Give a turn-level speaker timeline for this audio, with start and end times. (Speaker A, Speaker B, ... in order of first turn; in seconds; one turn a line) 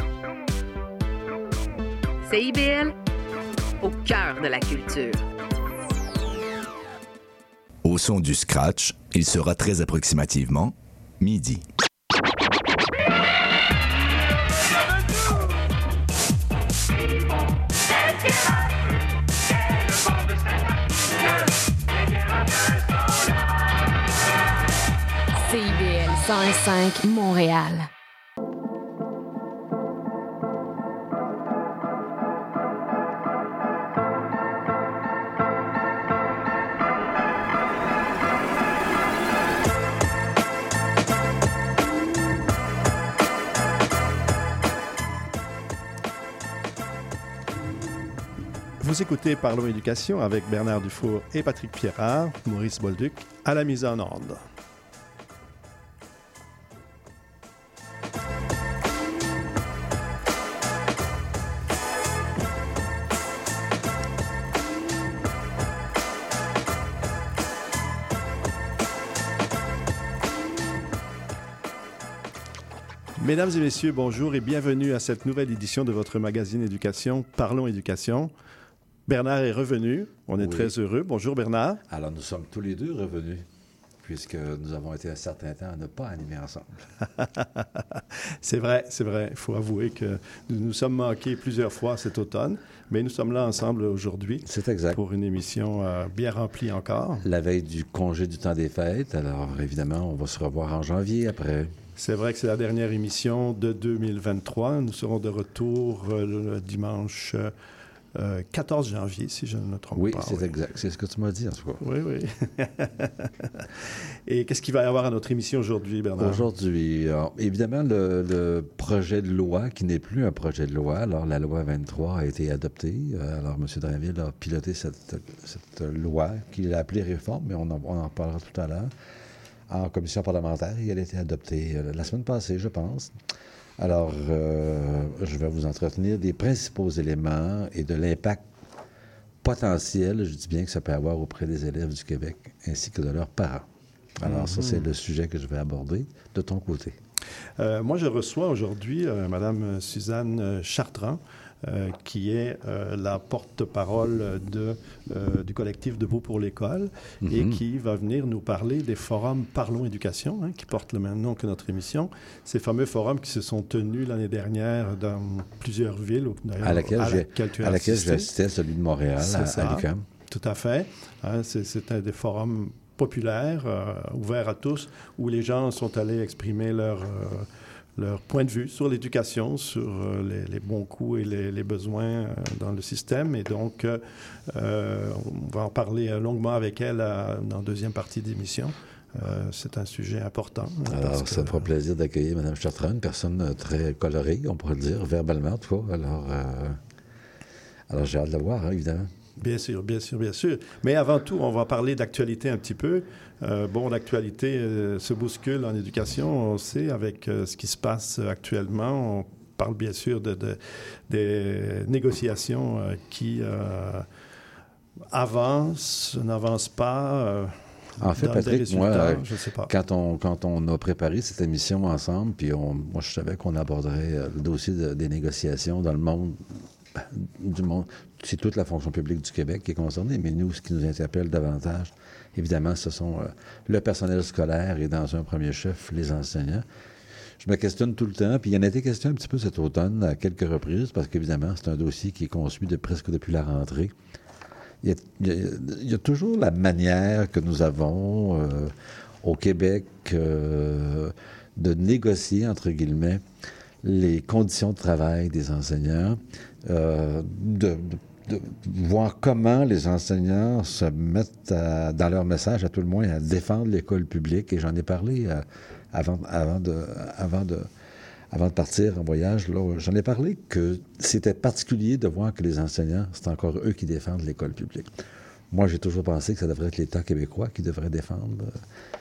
Speaker A: 2.2-2.9
Speaker A: 3.8-5.2
Speaker B: 7.8-11.6
Speaker C: 25.3-27.9
Speaker D: 48.8-54.4
Speaker D: 73.2-78.3
Speaker D: 79.1-81.8
Speaker E: 80.4-80.7
Speaker E: 81.9-83.5
Speaker E: 84.0-86.8
Speaker D: 87.2-97.3
Speaker E: 94.5-95.0
Speaker E: 97.2-101.7
Speaker D: 102.0-107.5
Speaker D: 108.2-110.5
Speaker E: 110.0-111.8
Speaker D: 111.8-113.7
Speaker D: 114.3-116.5
Speaker E: 116.2-128.9
Speaker E: 129.7-133.1
Speaker E: 133.8-138.4
Speaker E: 139.4-143.7
Speaker E: 144.2-147.0
Speaker D: 144.2-144.9
Speaker D: 147.6-168.3
Speaker E: 157.2-157.6
Speaker E: 166.6-170.1
Speaker D: 169.2-191.7
Speaker E: 190.9-196.8
Speaker E: 197.9-199.1
Speaker D: 199.4-214.1
Speaker D: 215.1-219.7
Speaker E: 218.0-236.7
Speaker E: 237.4-243.9
Speaker E: 244.8-253.2
Speaker E: 253.8-267.7
Speaker E: 268.3-274.9
Speaker E: 275.5-278.6